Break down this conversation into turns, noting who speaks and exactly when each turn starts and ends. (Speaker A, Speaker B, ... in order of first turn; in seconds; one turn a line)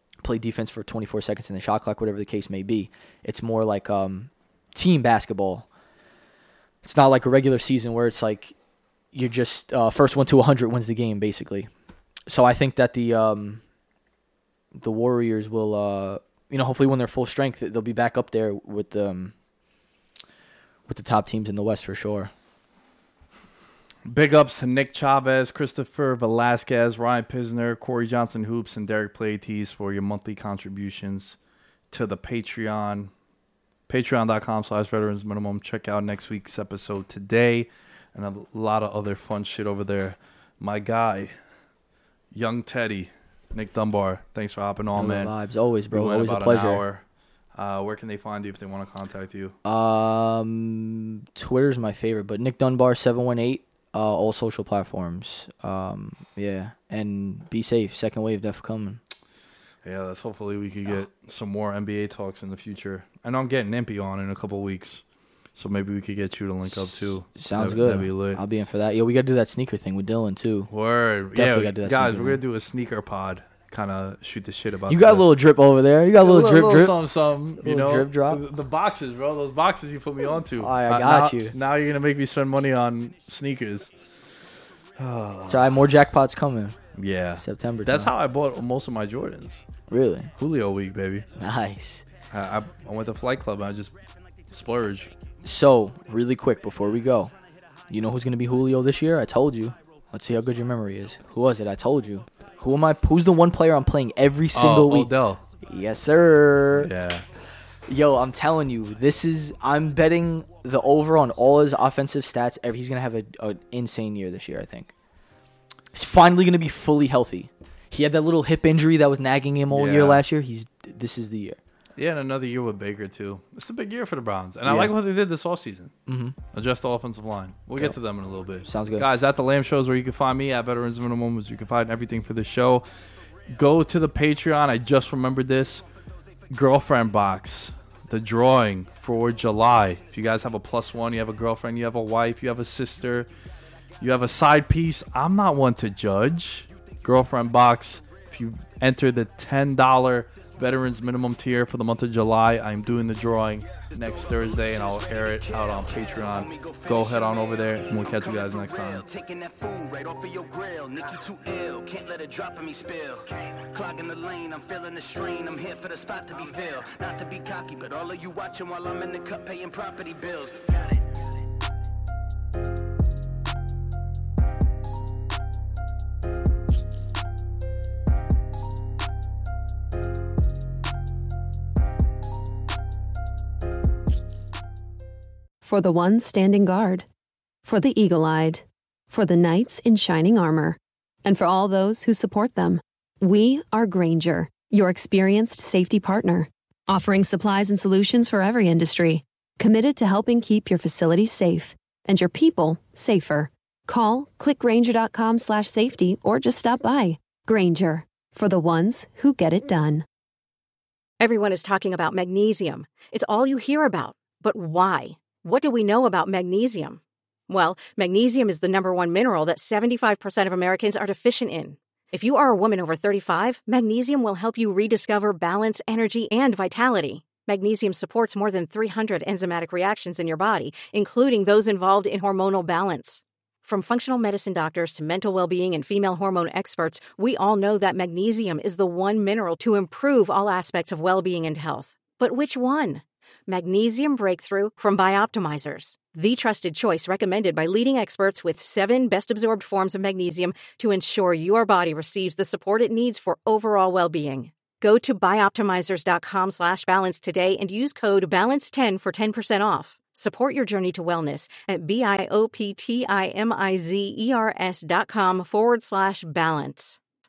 Speaker A: 0.2-5.7
Speaker A: 6.8-8.5
Speaker A: 9.1-11.7
Speaker A: 12.3-13.6
Speaker A: 14.8-19.3
Speaker A: 20.9-22.3
Speaker B: 24.1-31.4
Speaker B: 31.9-33.1
Speaker B: 33.9-41.3
Speaker B: 42.3-45.3
Speaker A: 44.9-46.8
Speaker B: 45.9-47.0
Speaker B: 47.5-49.5
Speaker A: 49.6-59.0
Speaker B: 59.8-65.0
Speaker B: 65.5-68.4
Speaker A: 66.7-70.7
Speaker B: 70.7-75.3
Speaker A: 71.3-72.4
Speaker A: 74.9-77.0
Speaker B: 76.2-83.9
Speaker A: 77.6-78.4
Speaker A: 80.6-81.5
Speaker B: 85.0-85.8
Speaker A: 85.5-86.8
Speaker B: 87.0-89.6
Speaker A: 87.4-88.1
Speaker A: 89.9-90.3
Speaker B: 90.4-91.3
Speaker A: 91.4-92.0
Speaker B: 92.3-93.9
Speaker B: 94.5-95.1
Speaker A: 95.4-97.3
Speaker A: 97.9-106.9
Speaker B: 104.5-105.4
Speaker B: 106.7-107.2
Speaker A: 107.9-114.9
Speaker A: 115.9-121.6
Speaker B: 119.7-120.2
Speaker B: 122.0-125.9
Speaker A: 124.7-124.9
Speaker A: 126.1-126.3
Speaker B: 126.5-132.8
Speaker A: 128.6-129.1
Speaker B: 133.5-135.8
Speaker B: 136.5-143.3
Speaker B: 144.0-159.0
Speaker C: 153.8-171.0
Speaker D: 185.6-187.1
Speaker D: 187.6-210.1
Speaker E: 211.2-267.0